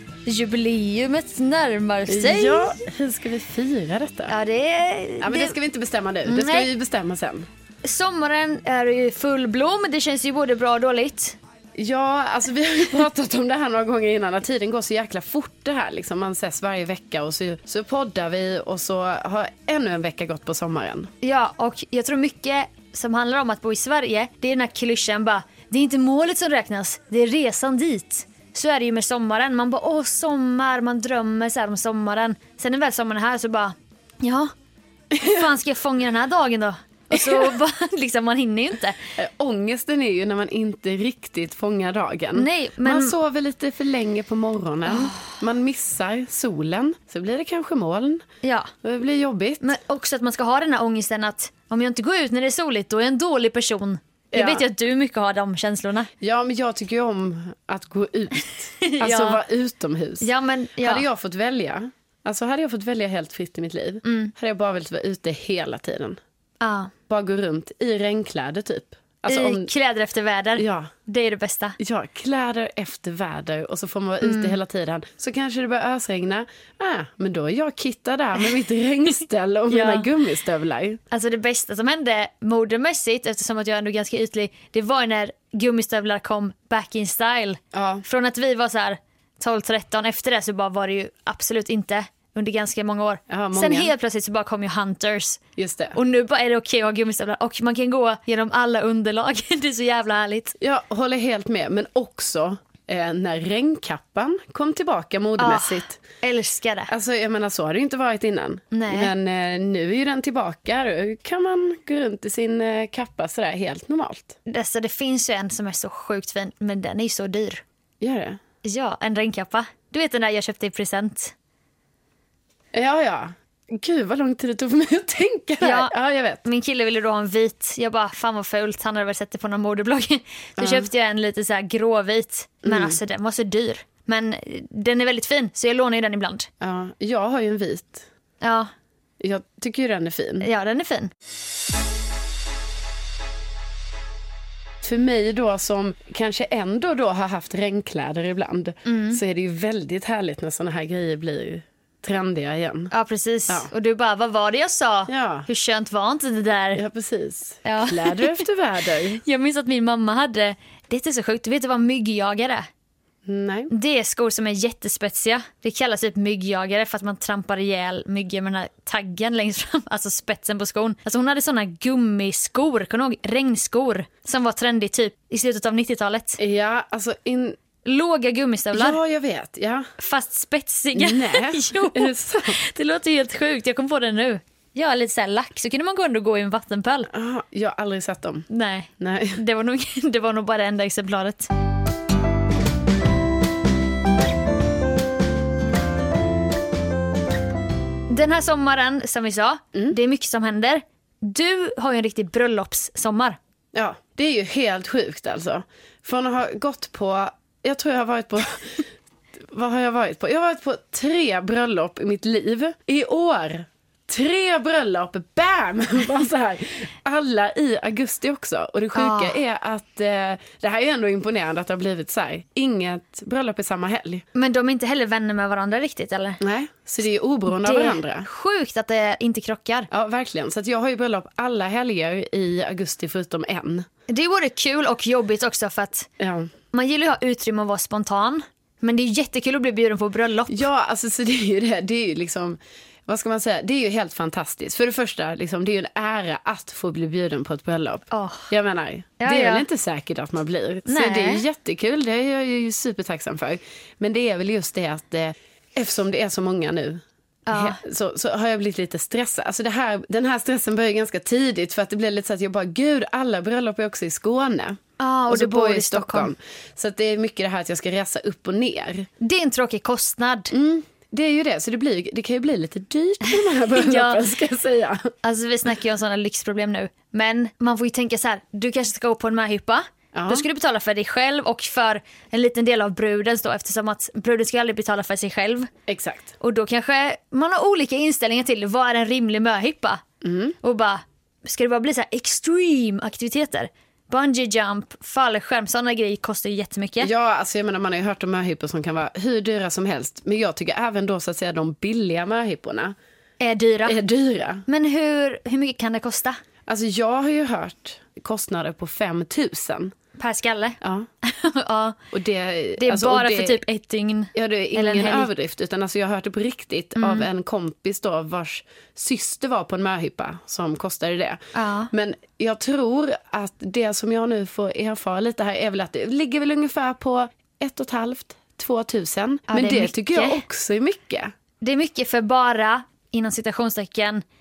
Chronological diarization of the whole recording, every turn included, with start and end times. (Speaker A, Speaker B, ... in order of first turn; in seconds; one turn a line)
Speaker A: 0.2-2.8
Speaker B: 2.1-4.3
Speaker A: 4.3-5.6
Speaker B: 5.2-7.5
Speaker A: 6.2-6.7
Speaker A: 7.8-11.4
Speaker B: 11.8-21.1
Speaker A: 21.2-34.5
Speaker B: 35.1-35.5
Speaker A: 35.2-39.0
Speaker B: 37.1-37.5
Speaker B: 39.1-48.2
Speaker A: 42.3-43.1
Speaker A: 44.9-45.3
Speaker A: 48.4-48.7
Speaker B: 48.8-49.7
Speaker A: 49.6-56.1
Speaker B: 54.3-54.6
Speaker B: 56.2-66.2
Speaker A: 58.4-59.4
Speaker A: 60.2-61.0
Speaker A: 64.0-64.3
Speaker A: 66.6-66.9
Speaker B: 67.1-69.7
Speaker A: 69.3-71.8
Speaker B: 70.5-70.9
Speaker B: 71.8-81.0
Speaker A: 74.2-74.6
Speaker A: 79.7-80.1
Speaker A: 81.1-95.4
Speaker B: 87.7-88.0
Speaker B: 93.3-93.9
Speaker B: 95.6-96.0
Speaker A: 95.9-100.5
Speaker B: 100.6-106.0
Speaker A: 105.4-106.9
Speaker B: 106.9-114.4
Speaker A: 108.7-109.1
Speaker A: 114.5-117.6
Speaker B: 118.0-118.4
Speaker A: 118.6-121.3
Speaker B: 122.7-126.4
Speaker A: 125.6-136.5
Speaker B: 130.6-130.9
Speaker B: 132.6-133.0
Speaker B: 136.6-138.1
Speaker A: 138.4-138.7
Speaker B: 139.2-140.5
Speaker A: 140.4-141.1
Speaker B: 144.8-152.9
Speaker A: 148.8-149.2
Speaker A: 152.9-156.8
Speaker B: 155.1-155.5
Speaker B: 156.7-159.2
Speaker A: 157.6-158.4
Speaker A: 159.2-162.7
Speaker B: 163.2-163.7
Speaker A: 163.7-176.4
Speaker B: 176.4-177.6
Speaker A: 177.8-179.0
Speaker B: 178.7-179.9
Speaker A: 180.0-187.1
Speaker B: 180.9-182.6
Speaker B: 187.1-188.5
Speaker A: 188.5-191.5
Speaker B: 189.0-189.4
Speaker A: 198.1-203.4
Speaker B: 203.7-208.8
Speaker B: 209.5-224.2
Speaker A: 218.9-219.4
Speaker A: 224.3-226.4
Speaker B: 226.4-228.3
Speaker A: 227.5-229.9
Speaker B: 229.9-233.9
Speaker A: 234.1-236.1
Speaker B: 236.2-236.5
Speaker A: 236.7-240.7
Speaker B: 240.5-264.8
Speaker A: 248.1-248.5
Speaker A: 249.2-249.7
Speaker A: 250.9-251.4
Speaker A: 257.5-257.8
Speaker A: 265.0-266.3
Speaker B: 265.3-269.1
Speaker A: 269.2-270.5
Speaker B: 270.5-275.1
Speaker A: 273.2-274.2
Speaker A: 275.2-285.7
Speaker B: 280.1-280.4
Speaker B: 285.9-286.3
Speaker A: 286.4-290.0
Speaker B: 290.2-290.6
Speaker A: 290.6-297.1
Speaker B: 297.0-302.9
Speaker A: 303.4-304.0
Speaker B: 303.9-304.6
Speaker A: 304.7-306.4
Speaker B: 306.7-309.9
Speaker A: 310.2-312.0
Speaker B: 310.8-311.1
Speaker B: 312.1-313.6
Speaker A: 312.8-315.3
Speaker B: 314.3-321.4
Speaker A: 316.9-317.3
Speaker A: 321.5-321.9
Speaker B: 321.9-331.3
Speaker A: 329.5-330.4
Speaker A: 331.6-334.2